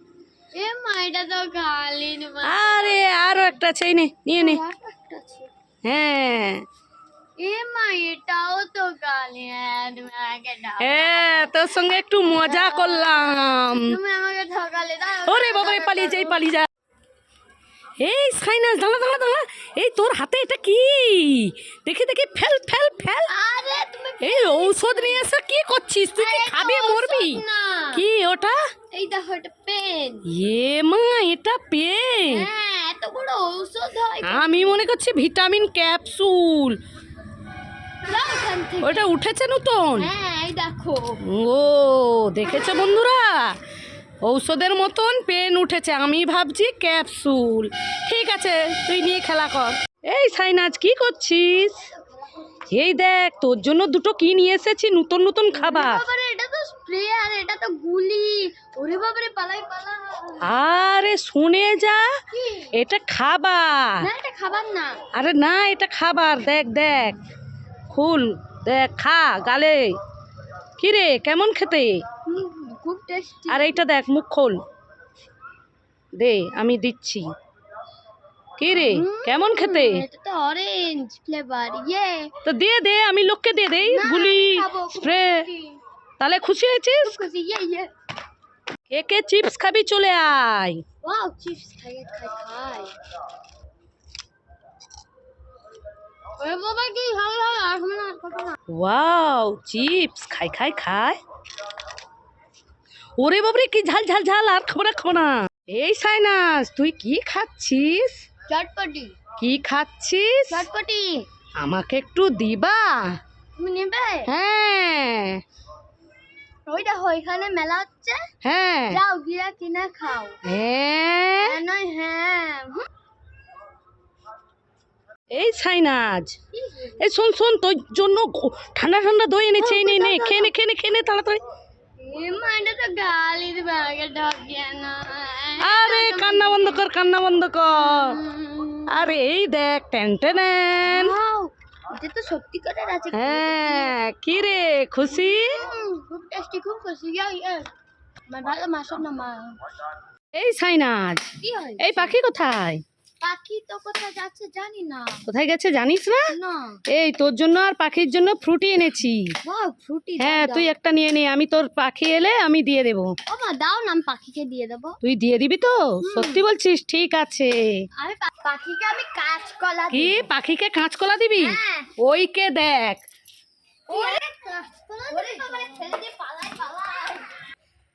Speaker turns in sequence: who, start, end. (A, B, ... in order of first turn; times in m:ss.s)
0:00.6-0:03.6 A
0:02.4-0:04.6 B
0:04.3-0:05.5 A
0:05.8-0:06.6 B
0:07.4-0:16.4 A
0:10.8-0:14.0 B
0:15.2-0:16.7 B
0:18.0-0:23.3 B
0:23.3-0:25.3 A
0:24.2-0:28.6 B
0:26.2-0:28.0 A
0:28.9-0:30.3 A
0:30.2-0:32.5 B
0:32.3-0:34.8 A
0:34.2-0:36.8 B
0:38.0-0:39.1 A
0:38.8-0:40.1 B
0:40.0-0:41.2 A
0:41.2-0:43.6 B
0:44.2-0:51.9 B
0:51.9-0:52.4 A
0:52.7-0:56.0 B
0:55.5-1:00.5 A
1:00.4-1:02.1 B
1:02.3-1:02.7 A
1:02.7-1:04.0 B
1:04.0-1:05.0 A
1:05.1-1:07.2 B
1:07.9-1:10.0 B
1:10.8-1:12.0 B
1:12.2-1:13.8 A
1:13.5-1:14.6 B
1:16.2-1:17.3 B
1:18.6-1:20.0 B
1:18.7-1:22.3 A
1:22.4-1:25.5 B
1:23.8-1:25.8 A
1:26.2-1:27.2 B
1:27.0-1:27.9 A
1:28.9-1:30.8 B
1:31.0-1:32.9 A
1:36.4-1:38.6 A
1:38.7-1:41.2 B
1:43.2-1:48.2 B
1:48.5-1:49.2 A
1:49.4-1:50.6 B
1:50.5-1:51.3 A
1:51.6-1:53.1 B
1:53.6-1:54.3 A
1:54.2-1:55.4 B
1:56.7-1:58.3 A
1:58.4-1:59.0 B
1:58.9-2:00.4 A
2:00.4-2:01.6 B
2:01.4-2:02.9 A
2:05.3-2:06.4 B
2:06.5-2:07.0 A
2:07.0-2:11.4 B
2:09.6-2:10.5 A
2:12.0-2:16.8 A
2:15.6-2:18.2 B
2:17.7-2:19.1 A
2:18.9-2:21.1 B
2:20.8-2:24.0 A
2:23.1-2:25.6 B
2:25.1-2:27.7 A
2:28.3-2:29.6 A
2:30.3-2:32.8 B
2:31.4-2:32.1 A
2:33.2-2:35.2 A
2:35.2-2:36.3 B
2:36.3-2:36.8 A
2:36.9-2:39.3 B
2:39.4-2:40.7 A
2:40.2-2:43.1 B
2:43.3-2:45.0 A
2:45.0-2:47.8 B
2:46.0-2:46.4 A
2:48.0-2:50.3 A
2:49.9-2:53.0 B
2:51.4-2:51.9 A
2:53.9-2:57.3 A